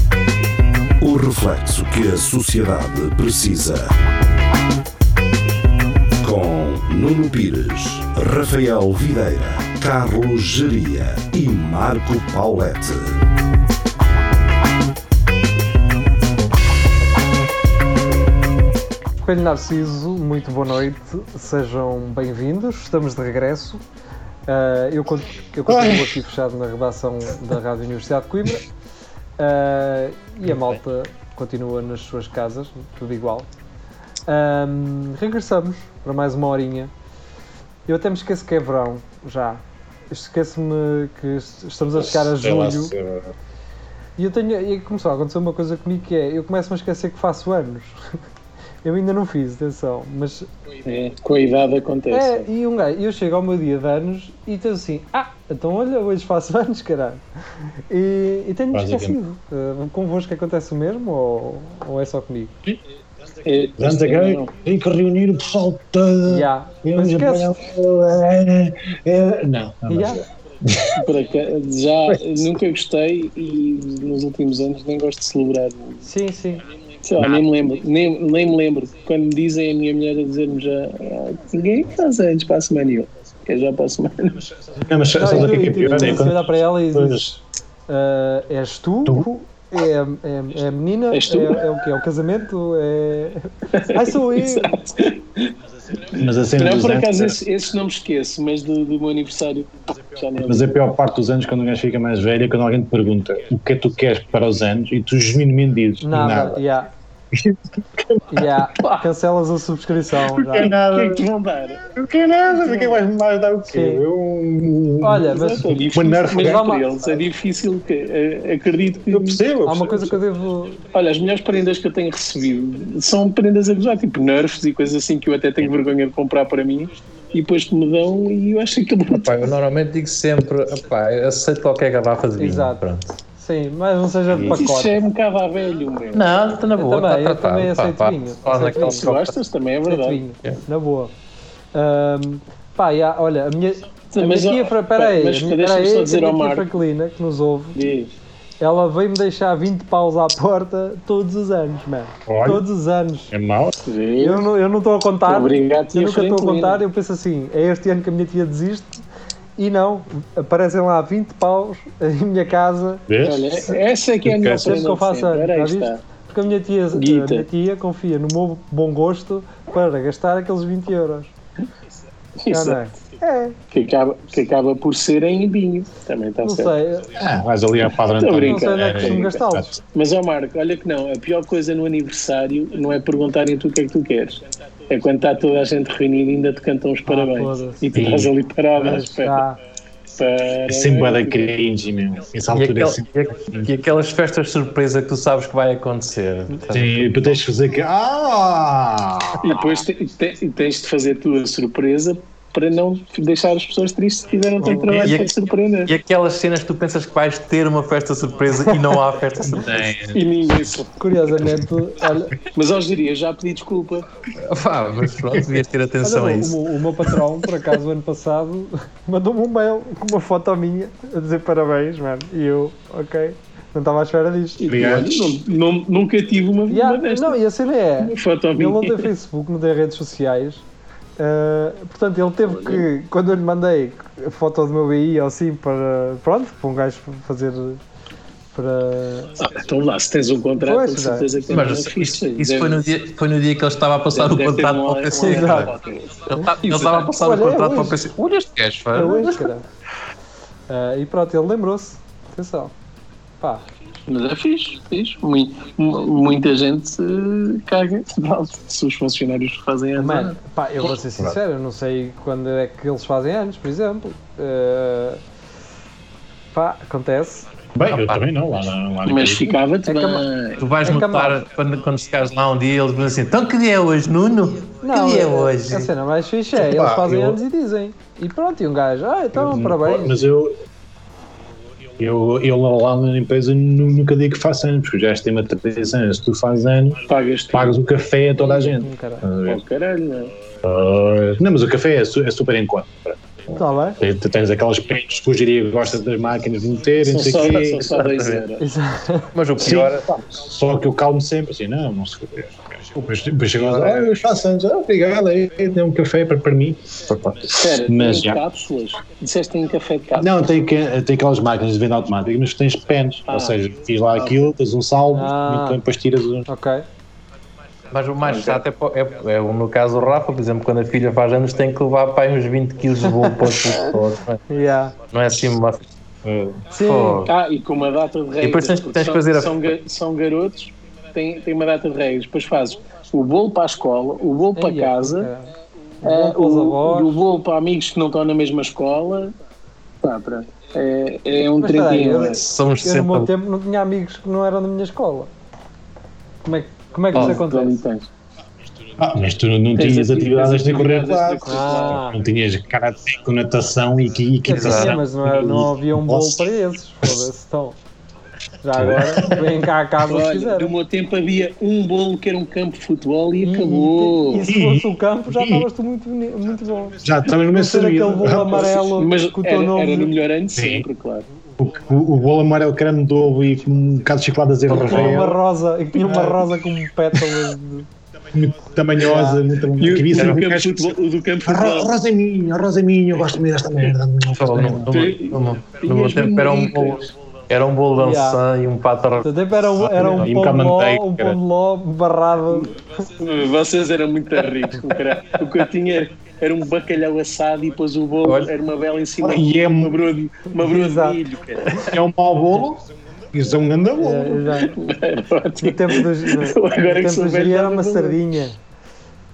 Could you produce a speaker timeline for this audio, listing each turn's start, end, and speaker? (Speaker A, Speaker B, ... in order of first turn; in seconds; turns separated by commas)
Speaker A: 1.0-3.9, Speaker A: 6.2-13.2, Speaker B: 19.2-23.8, Speaker B: 24.5-28.6, Speaker C: 25.7-26.2, Speaker B: 29.4-33.5, Speaker B: 34.3-36.9, Speaker B: 37.9-42.9, Speaker C: 42.0-43.3, Speaker B: 44.2-48.0, Speaker B: 48.8-50.5, Speaker D: 50.8-52.5, Speaker B: 52.1-57.2, Speaker B: 57.9-62.6, Speaker C: 58.7-59.2, Speaker D: 63.5-64.5, Speaker C: 63.8-71.0, Speaker B: 66.3-67.6, Speaker B: 69.9-70.2, Speaker D: 70.9-76.0, Speaker B: 76.0-76.6, Speaker D: 77.0-84.4, Speaker C: 77.2-77.5, Speaker C: 84.8-87.4, Speaker B: 85.2-87.3, Speaker B: 87.9-94.7, Speaker D: 91.1-91.7, Speaker D: 93.7-95.5, Speaker C: 96.1-97.4, Speaker D: 96.6-100.7, Speaker C: 100.5-106.7, Speaker B: 106.0-106.9, Speaker C: 107.3-108.6, Speaker B: 108.3-110.7, Speaker D: 108.8-109.1, Speaker D: 110.3-111.9, Speaker C: 110.5-111.3, Speaker C: 111.9-116.8, Speaker D: 112.5-113.0, Speaker B: 113.7-114.0, Speaker B: 115.0-115.7, Speaker D: 115.2-119.4, Speaker B: 116.4-116.9, Speaker C: 119.1-120.2, Speaker B: 119.6-120.8, Speaker D: 120.9-129.6, Speaker E: 129.1-133.2, Speaker B: 132.4-135.0, Speaker D: 134.5-136.3, Speaker E: 136.1-139.4, Speaker B: 136.8-139.1, Speaker D: 138.6-140.2, Speaker B: 139.9-141.1, Speaker B: 141.7-147.8, Speaker D: 144.1-146.7, Speaker D: 147.8-148.1, Speaker B: 148.6-153.3, Speaker C: 152.3-152.6, Speaker C: 153.3-153.8, Speaker D: 153.8-154.5, Speaker B: 154.2-159.0, Speaker D: 155.2-156.8, Speaker B: 159.6-163.1, Speaker C: 163.1-163.5, Speaker D: 163.2-166.0, Speaker C: 164.2-164.8, Speaker B: 164.6-171.3, Speaker D: 166.9-167.5, Speaker D: 172.4-172.8, Speaker B: 172.5-173.6, Speaker D: 173.7-176.8, Speaker B: 176.4-177.1, Speaker C: 177.2-179.7, Speaker D: 178.2-179.4, Speaker B: 178.4-179.8, Speaker D: 179.9-189.5, Speaker B: 187.1-187.8, Speaker C: 187.9-188.3, Speaker B: 188.8-189.6, Speaker D: 190.2-191.5, Speaker C: 190.7-193.7, Speaker E: 192.5-197.4, Speaker C: 196.7-199.8, Speaker D: 199.4-205.9, Speaker B: 204.6-205.1, Speaker E: 204.9-205.3, Speaker E: 205.9-209.9, Speaker B: 208.6-209.0, Speaker C: 209.4-210.2, Speaker D: 210.1-211.0, Speaker B: 211.0-212.4, Speaker D: 212.5-214.1, Speaker E: 214.4-216.6, Speaker B: 216.0-225.0, Speaker D: 224.6-227.4, Speaker C: 224.7-225.3, Speaker B: 226.7-230.6, Speaker D: 228.0-229.1, Speaker B: 231.2-237.8, Speaker D: 232.5-232.8, Speaker B: 238.5-239.4, Speaker D: 239.4-242.8, Speaker B: 240.6-241.3, Speaker E: 241.5-245.7, Speaker D: 244.1-247.1, Speaker B: 245.2-245.7, Speaker E: 246.3-249.5, Speaker B: 246.3-248.0, Speaker B: 248.9-249.7, Speaker B: 250.7-252.7, Speaker D: 254.1-260.4, Speaker B: 260.0-265.2, Speaker B: 266.5-267.5, Speaker C: 267.8-269.6, Speaker E: 267.9-268.2, Speaker D: 269.0-270.7, Speaker B: 269.9-270.2, Speaker E: 270.6-275.9, Speaker B: 270.8-271.4, Speaker B: 274.8-280.3, Speaker C: 276.5-277.4, Speaker C: 279.3-280.6, Speaker C: 282.0-287.0, Speaker D: 287.1-287.8, Speaker C: 287.5-289.6, Speaker B: 288.4-289.2, Speaker D: 289.5-290.3, Speaker C: 290.6-293.2, Speaker B: 293.5-294.0, Speaker C: 294.0-298.0, Speaker D: 297.0-298.7, Speaker E: 298.0-298.4, Speaker B: 298.6-299.3, Speaker E: 299.3-300.1, Speaker C: 299.6-308.4, Speaker D: 303.6-304.0, Speaker D: 307.5-310.4, Speaker C: 310.2-316.5, Speaker D: 313.3-313.6, Speaker B: 315.1-315.8, Speaker B: 316.5-316.9, Speaker E: 317.9-324.4, Speaker D: 318.2-318.6, Speaker B: 323.1-323.9, Speaker B: 324.5-324.9, Speaker E: 325.1-325.9, Speaker C: 326.2-326.7, Speaker B: 326.7-327.3, Speaker E: 326.8-327.3, Speaker D: 327.2-335.3, Speaker E: 328.4-329.6, Speaker B: 334.6-335.5, Speaker B: 336.0-337.2, Speaker D: 336.0-339.4, Speaker D: 340.0-342.4, Speaker B: 341.6-345.3, Speaker E: 342.3-343.3, Speaker B: 346.4-347.8, Speaker E: 347.1-347.4, Speaker D: 347.1-348.1, Speaker C: 349.0-356.5, Speaker D: 349.8-352.1, Speaker B: 351.5-352.2, Speaker B: 354.4-357.8, Speaker E: 354.5-355.0, Speaker B: 358.6-360.7, Speaker C: 358.8-359.6, Speaker D: 360.1-364.5, Speaker B: 363.4-370.1, Speaker C: 364.5-365.7, Speaker C: 367.0-368.7, Speaker D: 368.5-371.3, Speaker C: 370.6-370.9, Speaker C: 371.6-375.4, Speaker B: 374.7-377.9, Speaker E: 374.7-375.3, Speaker C: 376.0-376.4, Speaker C: 378.3-380.9, Speaker B: 379.0-379.4, Speaker D: 379.8-382.0, Speaker C: 381.4-384.9, Speaker E: 384.3-390.3, Speaker D: 384.9-387.1, Speaker B: 388.0-388.4, Speaker B: 389.2-392.7, Speaker C: 389.8-391.4, Speaker D: 393.2-401.7, Speaker E: 398.2-398.5, Speaker C: 399.2-400.0, Speaker B: 400.5-401.2, Speaker C: 401.7-404.5, Speaker B: 404.0-404.8, Speaker D: 404.6-408.2, Speaker B: 405.6-408.6